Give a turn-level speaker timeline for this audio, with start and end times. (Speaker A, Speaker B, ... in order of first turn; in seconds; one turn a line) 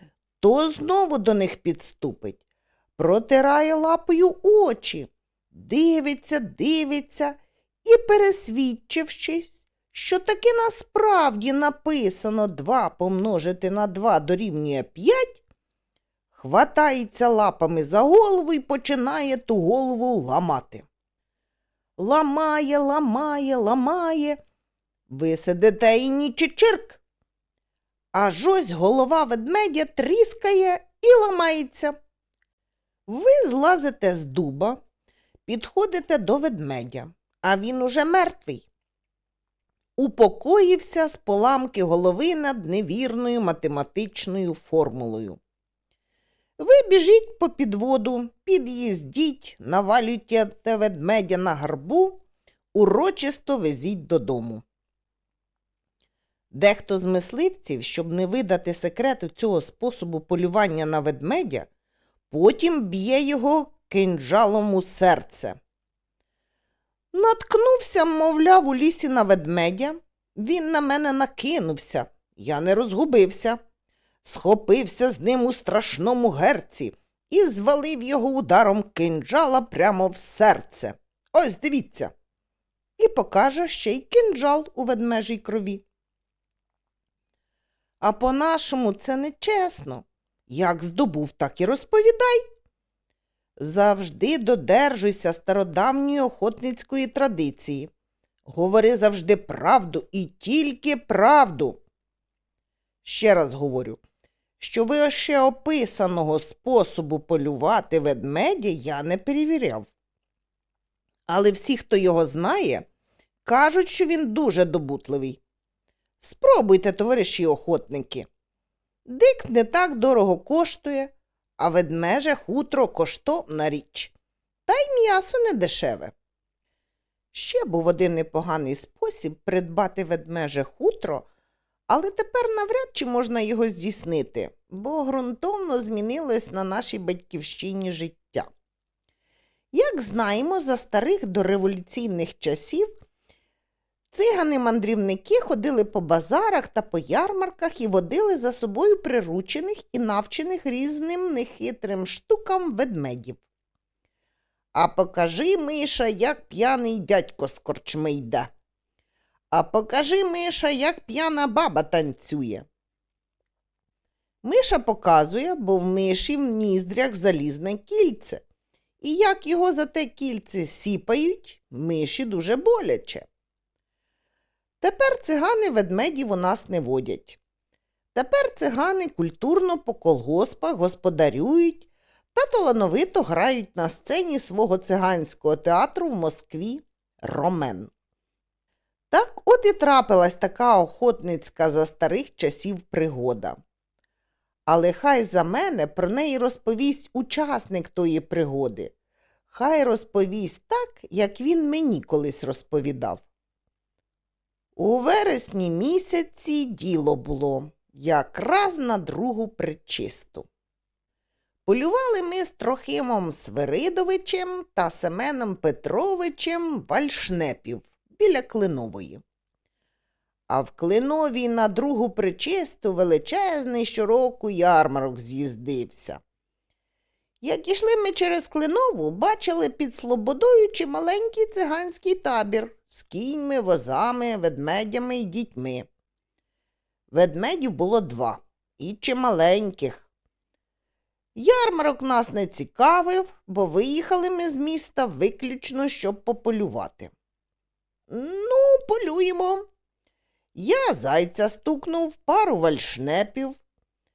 Speaker A: 0.4-2.4
Speaker A: 3.0-15.4
Speaker A: 16.3-20.8
Speaker A: 22.0-24.4
Speaker A: 25.1-27.0
Speaker A: 28.1-31.9
Speaker A: 33.1-34.8
Speaker A: 35.5-38.6
Speaker A: 40.0-45.4
Speaker A: 46.6-52.2
Speaker A: 52.7-54.6
Speaker A: 56.5-61.7
Speaker A: 62.3-65.6
Speaker A: 67.1-73.6
Speaker A: 74.2-82.1
Speaker A: 83.0-85.8
Speaker A: 88.0-92.4
Speaker A: 93.6-97.9
Speaker A: 98.5-101.8
Speaker A: 103.0-104.0
Speaker A: 104.6-109.9
Speaker A: 111.3-112.9
Speaker A: 113.4-115.4
Speaker A: 116.2-118.3
Speaker A: 119.1-124.1
Speaker A: 124.7-126.1
Speaker A: 127.3-131.3
Speaker A: 131.9-138.5
Speaker A: 139.7-142.9
Speaker A: 144.1-153.4
Speaker A: 154.8-158.5
Speaker A: 159.5-162.7
Speaker A: 164.4-168.4
Speaker A: 169.0-173.3
Speaker A: 174.8-177.4
Speaker A: 178.1-187.9
Speaker A: 189.1-193.6
Speaker A: 194.7-198.9
Speaker A: 199.5-203.2
Speaker A: 204.8-210.5
Speaker A: 211.7-219.2
Speaker A: 220.5-226.2
Speaker A: 227.4-235.9
Speaker A: 237.1-240.1
Speaker A: 241.3-247.1
Speaker A: 248.1-249.6
Speaker A: 250.5-253.6